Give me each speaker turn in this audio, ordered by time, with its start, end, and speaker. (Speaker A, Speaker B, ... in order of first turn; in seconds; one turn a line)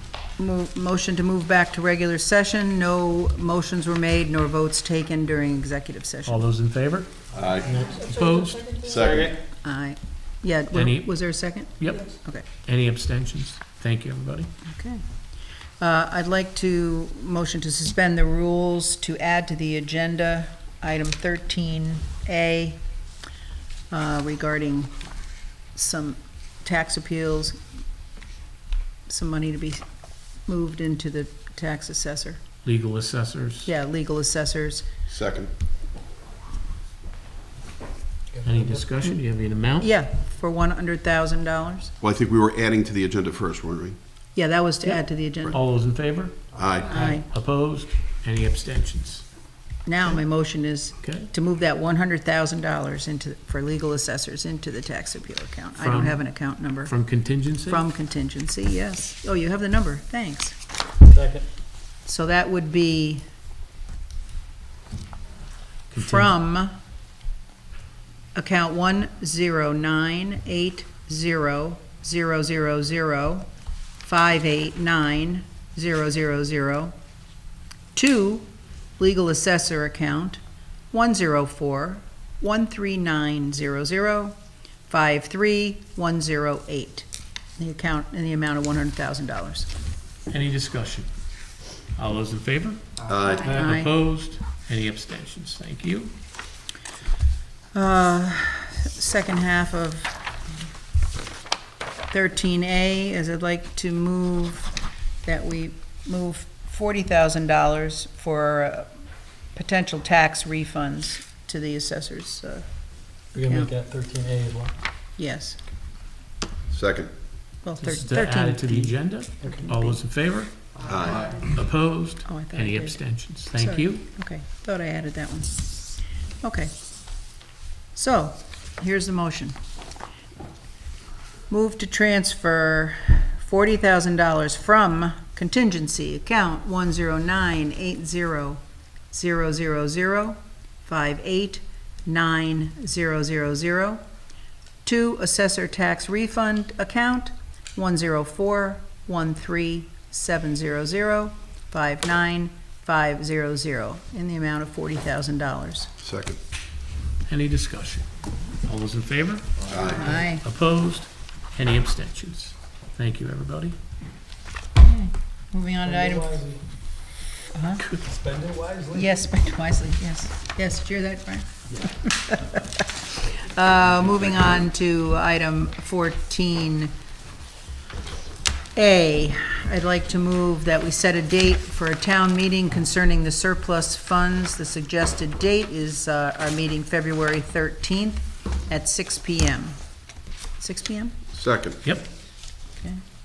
Speaker A: 0.4-6.4
Speaker B: 6.2-7.1
Speaker C: 7.3-7.8
Speaker D: 7.4-8.1
Speaker B: 7.8-8.8
Speaker C: 8.8-9.3
Speaker D: 9.0-9.3
Speaker A: 9.6-12.4
Speaker B: 10.7-14.5
Speaker A: 14.7-15.0
Speaker A: 15.8-22.8
Speaker A: 23.9-25.0
Speaker A: 25.7-27.6
Speaker A: 29.1-29.8
Speaker A: 30.5-32.4
Speaker B: 32.6-33.7
Speaker A: 33.6-34.8
Speaker C: 35.1-35.5
Speaker D: 38.3-38.9
Speaker B: 38.4-39.9
Speaker A: 39.8-41.9
Speaker C: 42.0-44.0
Speaker A: 44.3-45.6
Speaker B: 44.8-49.3
Speaker C: 46.5-47.0
Speaker A: 46.9-47.3
Speaker A: 49.9-56.9
Speaker B: 51.0-51.3
Speaker B: 55.8-57.9
Speaker A: 57.6-60.5
Speaker D: 61.0-61.5
Speaker A: 62.0-63.2
Speaker B: 65.9-66.3
Speaker A: 66.0-66.8
Speaker A: 68.3-73.5
Speaker A: 74.0-76.9
Speaker A: 77.9-78.5
Speaker A: 79.0-80.4
Speaker A: 80.9-84.3
Speaker A: 84.9-87.1
Speaker A: 87.6-89.7
Speaker B: 90.3-91.1
Speaker B: 91.9-92.8
Speaker C: 93.1-93.5
Speaker B: 93.4-96.1
Speaker A: 93.5-93.9
Speaker A: 97.7-100.2
Speaker A: 102.1-104.7
Speaker A: 105.2-108.9
Speaker A: 109.5-112.7
Speaker D: 113.3-114.7
Speaker A: 113.4-113.7
Speaker A: 115.2-115.6
Speaker C: 116.7-117.1
Speaker A: 117.6-120.0
Speaker B: 117.8-124.0
Speaker C: 120.8-121.5
Speaker A: 122.2-125.8
Speaker A: 126.4-126.7
Speaker A: 127.9-129.5
Speaker A: 131.5-138.6
Speaker A: 139.1-144.0
Speaker A: 144.8-155.9
Speaker C: 156.0-156.4
Speaker B: 157.3-158.1
Speaker B: 158.6-163.8
Speaker C: 159.7-160.2
Speaker A: 159.8-160.4
Speaker A: 164.8-166.4
Speaker D: 165.8-166.6
Speaker A: 167.5-167.9
Speaker D: 168.0-169.2
Speaker A: 168.9-176.9
Speaker A: 178.7-189.8
Speaker A: 190.6-191.2
Speaker C: 191.3-191.8